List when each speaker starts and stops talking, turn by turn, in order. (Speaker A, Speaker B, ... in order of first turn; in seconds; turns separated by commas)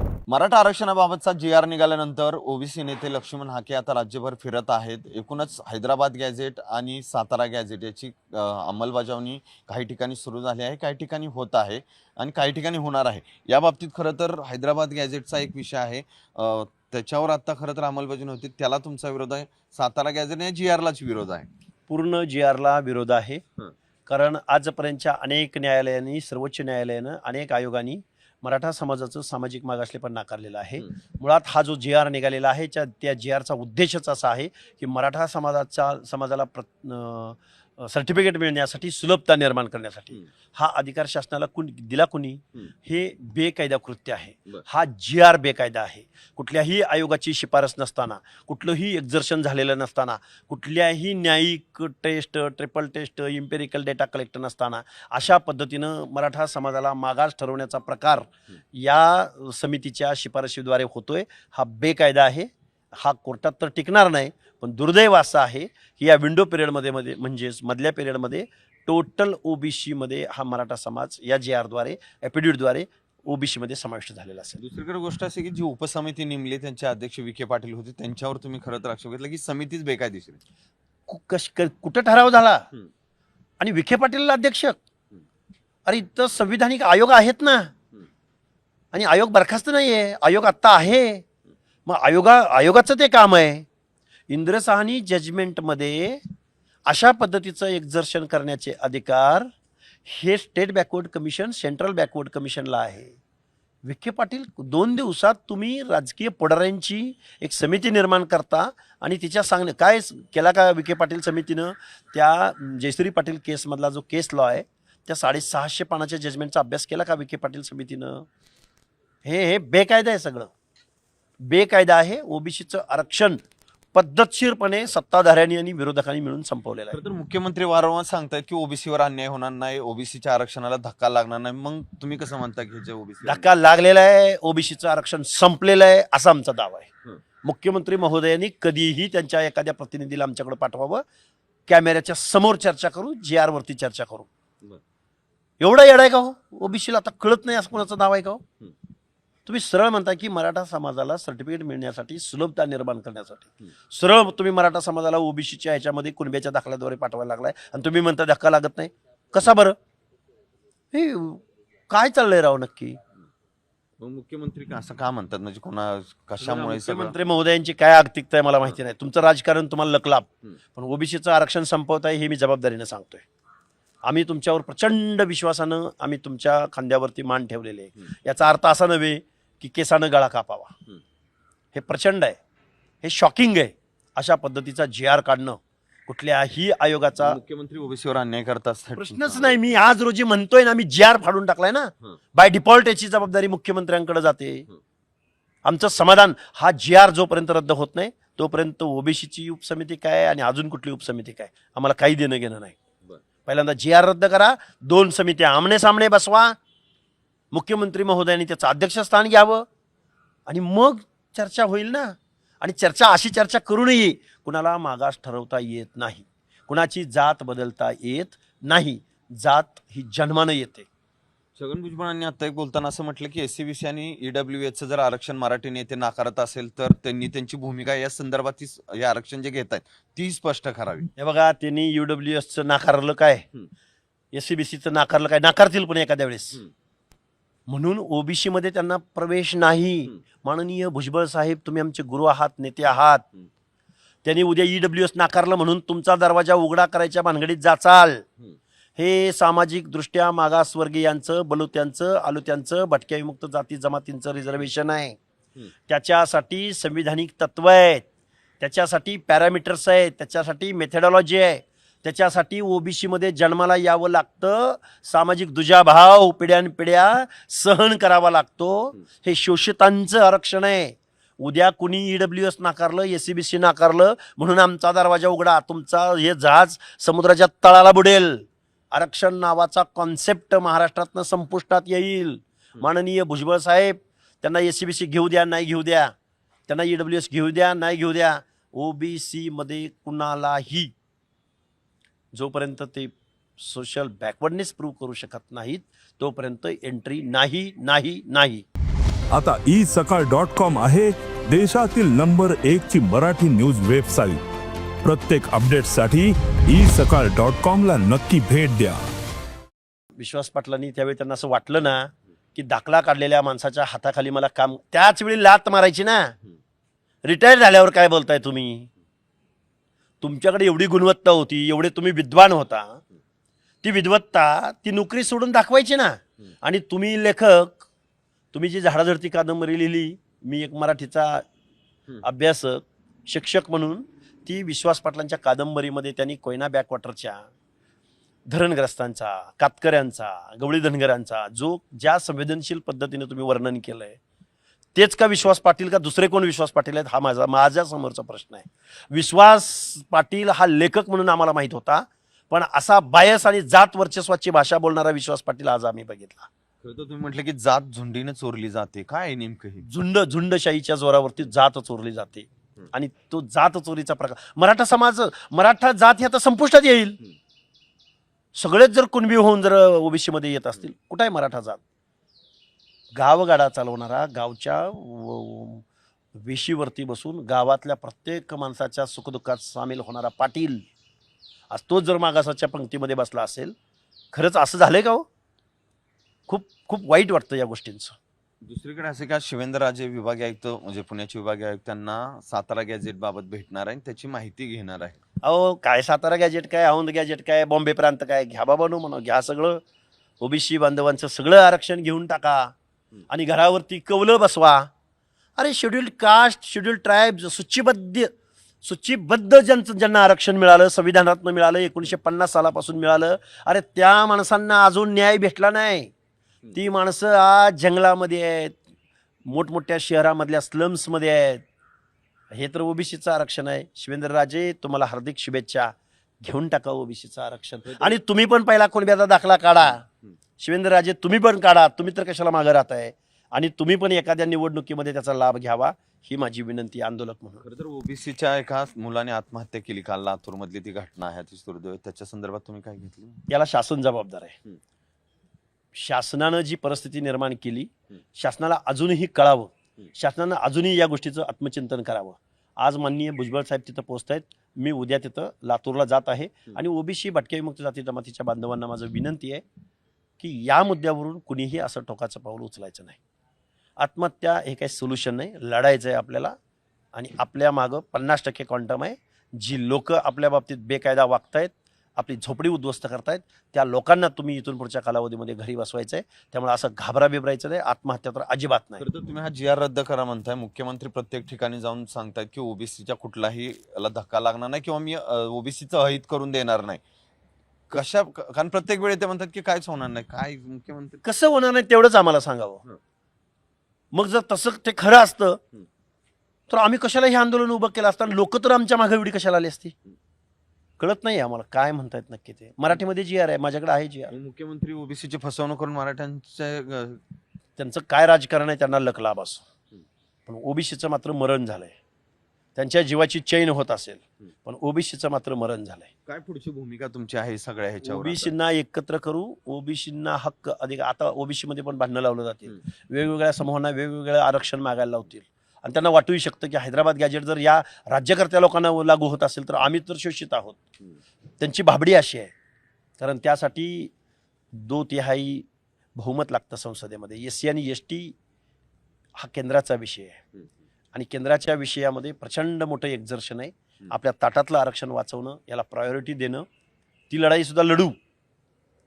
Speaker A: 0.3-21.5, Speaker B: 21.9-23.4, Speaker B: 24.1-74.6, Speaker A: 74.6-80.4, Speaker B: 81.1-82.7, Speaker B: 83.6-84.8, Speaker B: 85.8-87.7, Speaker B: 88.9-91.2, Speaker B: 91.8-93.7, Speaker B: 94.3-96.2, Speaker B: 96.9-99.5, Speaker B: 100.0-103.2, Speaker B: 103.8-118.2, Speaker B: 119.2-120.5, Speaker B: 121.4-123.4, Speaker B: 123.9-127.0, Speaker A: 126.9-133.5, Speaker B: 133.2-136.9, Speaker B: 137.4-141.0, Speaker B: 141.7-144.3, Speaker B: 145.6-148.4, Speaker B: 149.4-159.8, Speaker B: 160.9-163.0, Speaker A: 164.0-167.3, Speaker B: 166.4-173.2, Speaker B: 174.1-180.7, Speaker B: 181.7-182.4, Speaker B: 183.0-187.4, Speaker A: 187.2-189.7, Speaker B: 188.9-194.7, Speaker B: 195.6-202.8, Speaker B: 203.4-206.6, Speaker B: 207.5-209.6, Speaker B: 210.5-220.9, Speaker A: 221.6-231.1, Speaker B: 231.2-233.4, Speaker B: 234.3-236.6, Speaker B: 237.7-243.2, Speaker B: 244.2-248.2, Speaker B: 249.0-255.2, Speaker B: 255.9-258.0, Speaker B: 258.6-286.1, Speaker B: 286.7-290.9, Speaker B: 292.3-298.6, Speaker C: 299.3-304.4, Speaker C: 305.0-309.1, Speaker B: 310.2-316.3, Speaker B: 317.2-318.9, Speaker B: 320.2-323.0, Speaker B: 323.8-327.9, Speaker B: 328.5-331.4, Speaker B: 332.2-337.5, Speaker B: 338.5-344.2, Speaker B: 344.9-356.5, Speaker A: 356.8-359.9, Speaker B: 359.9-367.2, Speaker B: 368.5-371.8, Speaker B: 373.1-375.8, Speaker B: 376.4-380.9, Speaker B: 381.7-383.7, Speaker B: 384.3-385.3, Speaker B: 386.5-388.2, Speaker A: 388.6-395.2, Speaker B: 395.4-399.8, Speaker B: 400.4-402.7, Speaker B: 403.3-404.9, Speaker B: 405.6-416.1, Speaker B: 416.7-418.8, Speaker B: 419.5-421.6, Speaker B: 422.5-430.0, Speaker A: 427.8-428.2, Speaker B: 430.6-437.6, Speaker A: 437.6-443.4, Speaker B: 443.5-444.6, Speaker B: 445.9-459.6, Speaker B: 460.4-463.2, Speaker B: 464.0-466.5, Speaker B: 467.1-479.1, Speaker A: 479.0-487.0, Speaker A: 487.9-491.2, Speaker B: 491.2-492.8, Speaker B: 494.1-495.6, Speaker B: 496.7-499.9, Speaker B: 501.0-504.3, Speaker A: 504.3-507.2, Speaker B: 507.8-509.6, Speaker B: 510.5-511.9, Speaker B: 512.7-516.1, Speaker A: 516.2-518.5, Speaker B: 518.0-530.8, Speaker B: 531.6-532.5, Speaker B: 533.2-534.1, Speaker B: 534.7-538.3, Speaker B: 539.4-540.4, Speaker B: 541.1-546.6, Speaker B: 547.3-548.1